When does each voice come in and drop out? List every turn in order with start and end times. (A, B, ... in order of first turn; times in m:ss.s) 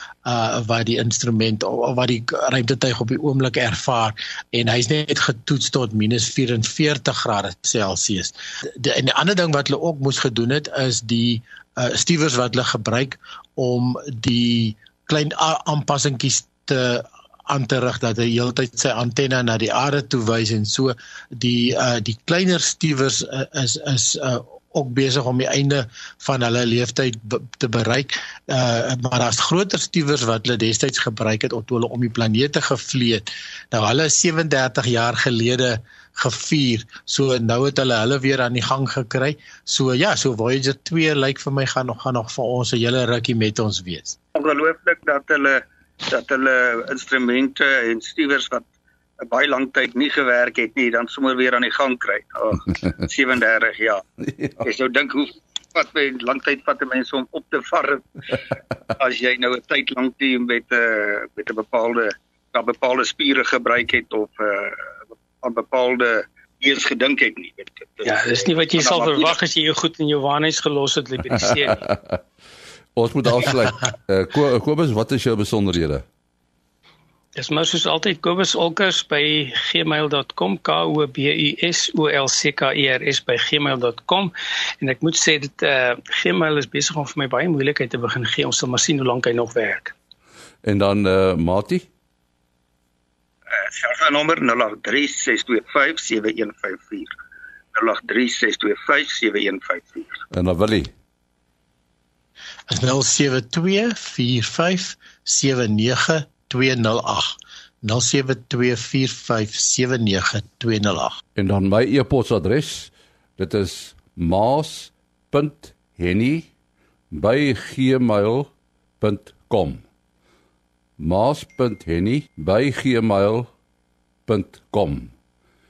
0:00.2-0:44.2 A
0:44.4-0:48.6 B
0:49.2-0:54.0 B
0:54.6-0:58.4 B
0:59.0-1:04.9 B
1:05.4-1:09.3 B
1:08.0-1:11.8 C
1:11.9-1:12.2 D
1:13.0-1:16.0 D
1:17.4-1:29.9 C
1:30.6-1:31.8 D
1:33.6-1:37.1 B
1:37.7-1:40.2 B
1:40.3-1:40.9 D
1:42.7-1:51.2 A
1:51.4-1:56.5 D
1:57.1-1:59.8 D
2:01.0-2:03.5 D
2:04.3-2:05.1 D